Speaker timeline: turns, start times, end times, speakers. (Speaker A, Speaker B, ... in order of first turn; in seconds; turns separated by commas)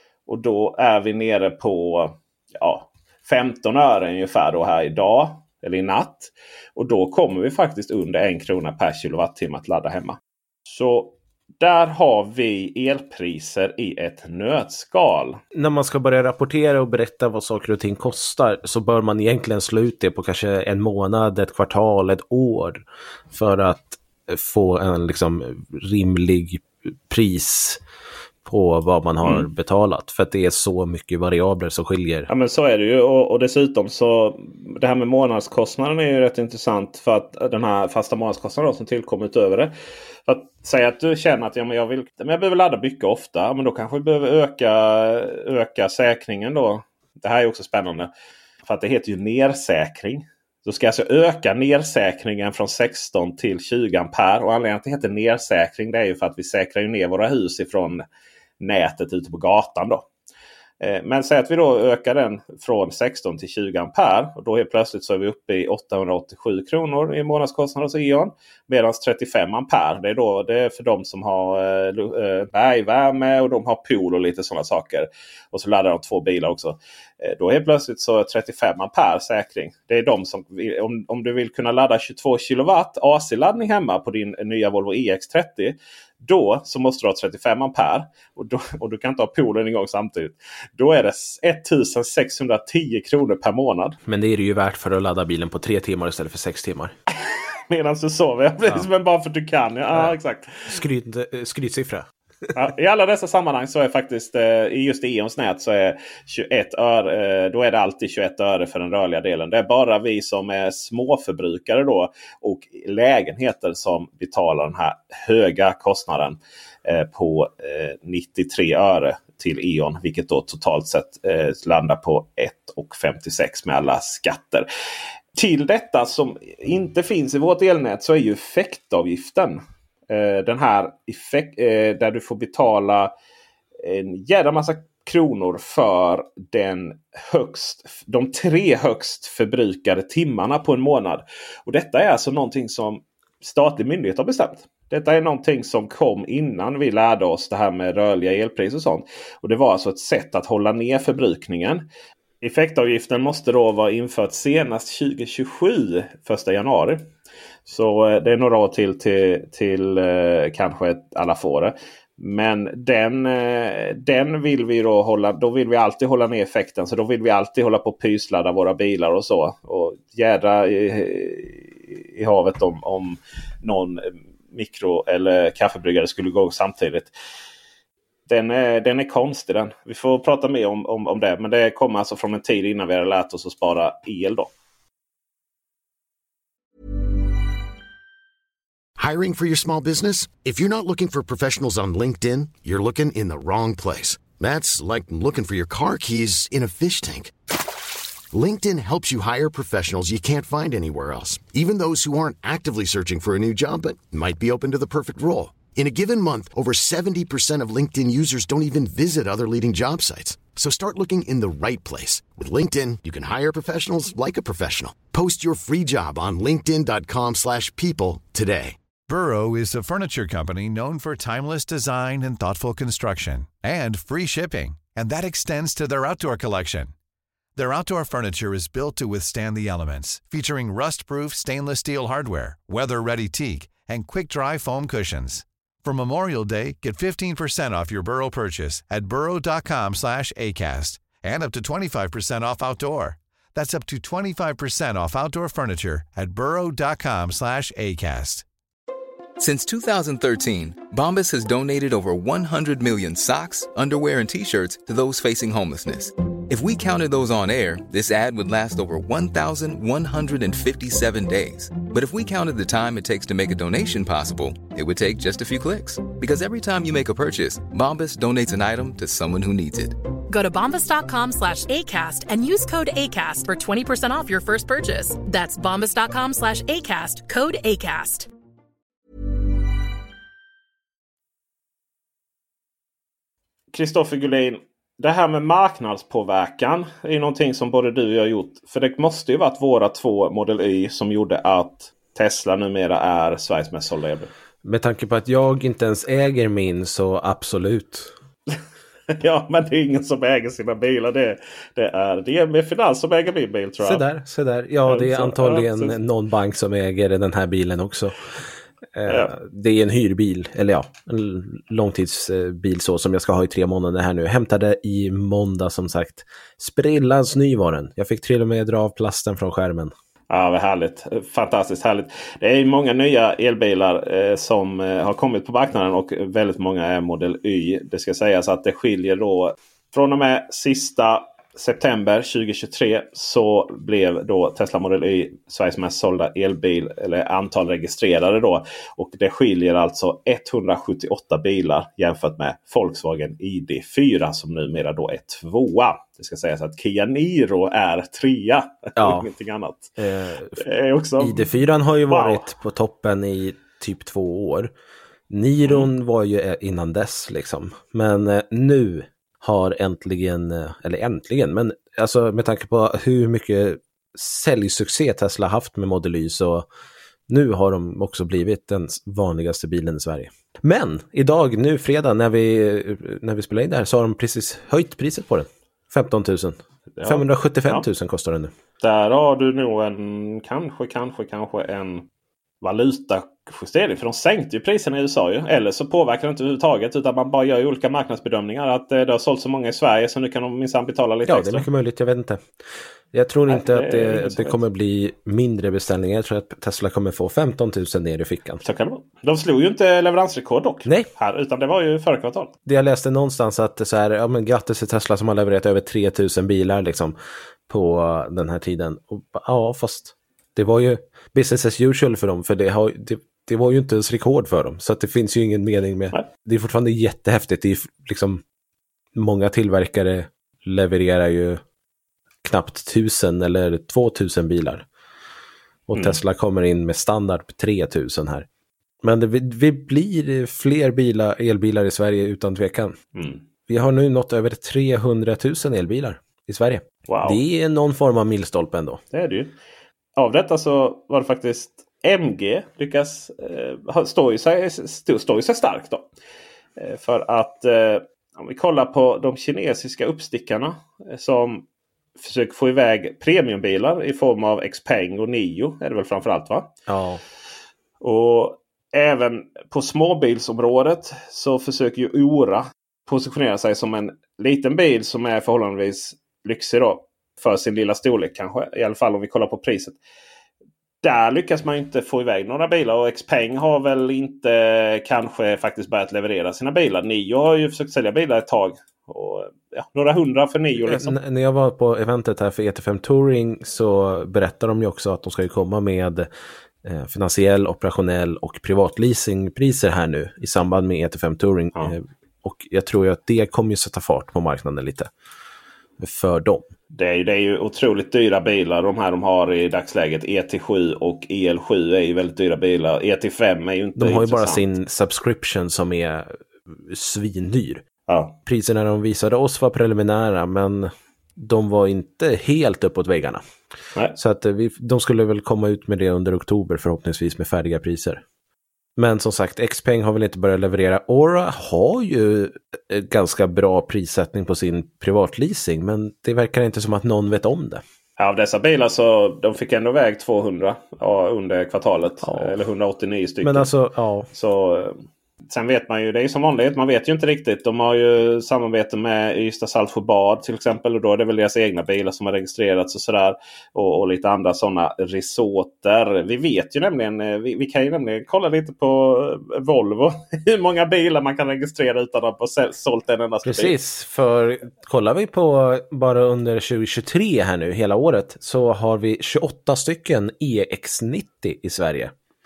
Speaker A: 0.3-15.4, Speaker B: 15.5-27.8, Speaker B: 28.4-32.3, Speaker A: 29.2-29.5, Speaker A: 32.3-39.7, Speaker A: 40.3-48.1, Speaker A: 48.6-58.0, Speaker A: 58.6-60.0, Speaker A: 60.8-94.0, Speaker B: 94.1-96.9, Speaker A: 97.7-100.7, Speaker B: 100.7-102.1, Speaker A: 102.5-124.7, Speaker A: 125.3-133.1, Speaker A: 133.8-151.8, Speaker A: 152.4-157.0, Speaker A: 157.7-177.1, Speaker A: 178.3-184.5, Speaker C: 189.0-197.3, Speaker C: 198.3-218.8, Speaker D: 219.1-226.9, Speaker D: 227.6-248.5, Speaker E: 249.4-270.0, Speaker F: 270.3-278.3, Speaker A: 283.7-294.3, Speaker B: 294.6-298.1, Speaker A: 299.1-304.1, Speaker B: 303.8-308.2, Speaker A: 304.9-306.0, Speaker B: 308.9-319.9, Speaker A: 309.1-309.3, Speaker A: 320.3-349.9, Speaker B: 349.0-349.3, Speaker B: 350.0-350.6, Speaker A: 350.6-351.5, Speaker B: 351.2-354.7, Speaker A: 352.1-352.5, Speaker B: 355.3-366.7, Speaker B: 367.3-378.5, Speaker A: 376.9-377.9, Speaker A: 378.8-382.1, Speaker A: 382.6-391.7, Speaker B: 391.3-392.5, Speaker B: 393.1-398.6, Speaker A: 393.5-394.6, Speaker A: 398.6-402.5, Speaker B: 402.7-407.2, Speaker B: 407.7-418.4, Speaker B: 419.1-421.6, Speaker B: 422.4-424.9, Speaker B: 425.9-428.5, Speaker B: 429.0-433.0, Speaker A: 433.1-433.4, Speaker B: 433.7-439.0, Speaker A: 437.1-437.4, Speaker A: 439.1-439.6, Speaker A: 440.2-446.1, Speaker A: 446.8-451.6, Speaker A: 452.2-456.7, Speaker B: 456.9-457.2, Speaker A: 458.0-470.0, Speaker A: 471.0-481.2, Speaker B: 480.8-486.3, Speaker B: 486.8-495.1, Speaker B: 496.0-496.7, Speaker A: 496.9-504.6, Speaker B: 504.0-507.8, Speaker A: 508.1-508.4, Speaker B: 508.5-513.4, Speaker B: 514.1-518.2, Speaker B: 519.0-527.8, Speaker A: 528.2-533.7, Speaker B: 532.2-532.6, Speaker B: 533.4-534.3, Speaker A: 534.3-553.8, Speaker B: 553.5-562.1